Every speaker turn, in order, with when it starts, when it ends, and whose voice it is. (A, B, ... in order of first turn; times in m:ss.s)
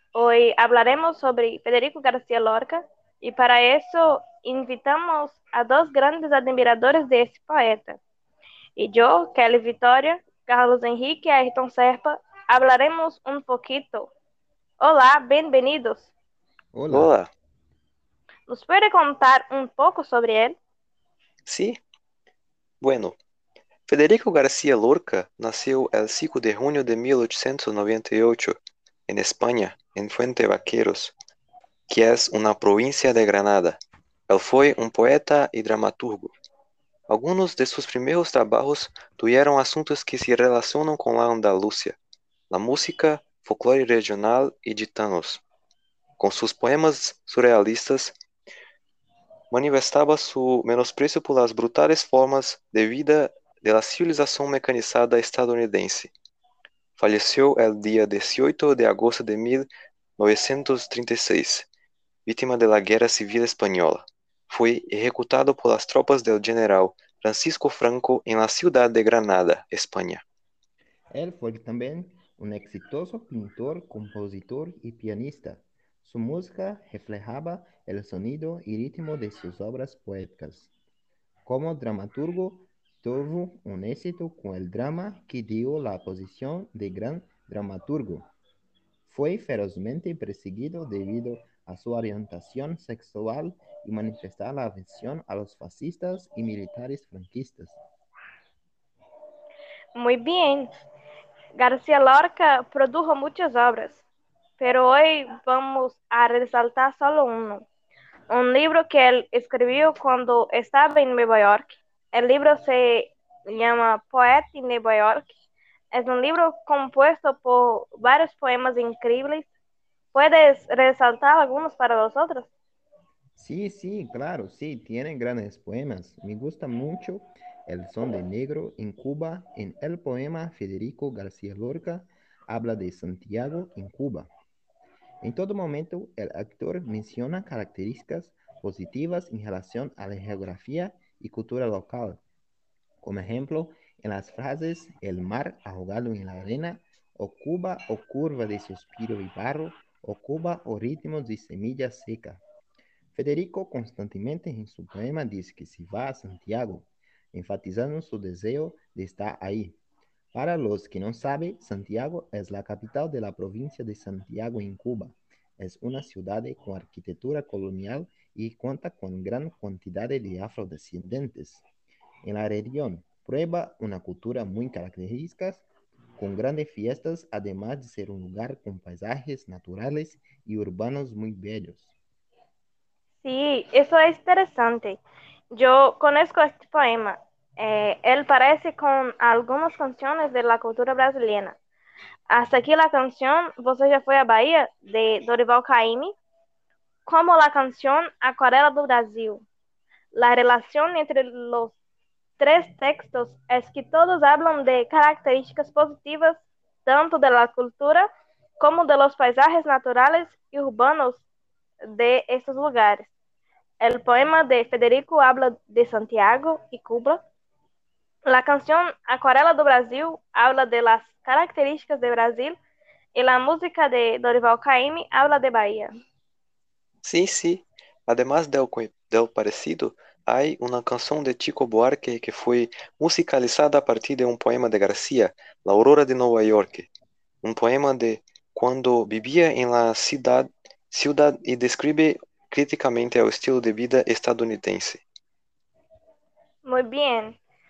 0:00.1-0:08.0 A
0:08.8-0:14.1 A
0:14.8-0:16.1 A
0:16.7-0:17.1 B
0:16.9-0:17.3 C
0:18.5-0:20.6 A
0:21.4-0:21.8 C
0:22.8-0:23.2 C
0:23.9-0:28.6 C
0:29.1-0:31.1 C
0:31.9-0:33.8 C
0:34.3-0:36.3 C
0:37.1-0:42.0 C
0:42.5-0:45.4 C
0:46.2-0:48.1 C
0:49.5-0:56.1 C
0:57.0-1:01.7 C
1:02.3-1:10.2 C
1:11.1-1:20.7 B
1:21.4-1:28.3 B
1:29.0-1:37.8 B
1:39.9-1:40.7 A
1:41.5-1:44.0 A
1:44.6-1:47.6 A
1:48.3-1:55.3 A
1:55.9-1:59.5 A
2:00.1-2:02.5 A
2:03.4-2:14.3 B
2:15.2-2:22.2 B
2:23.0-2:32.4 B
2:33.1-2:39.8 B
2:40.3-2:51.6 B
2:52.2-2:55.6 B
2:56.2-3:01.9 B
3:03.2-3:05.0 A
3:05.5-3:11.6 A
3:12.3-3:16.1 A
3:17.0-3:19.4 A
3:20.1-3:21.8 A
3:22.4-3:28.0 A
3:28.6-3:31.2 A
3:31.9-3:33.1 A
3:33.8-3:37.2 A
3:38.3-3:42.6 A
3:43.1-3:45.9 A
3:47.0-3:56.9 C
3:57.4-4:05.0 C
4:06.6-4:07.4 A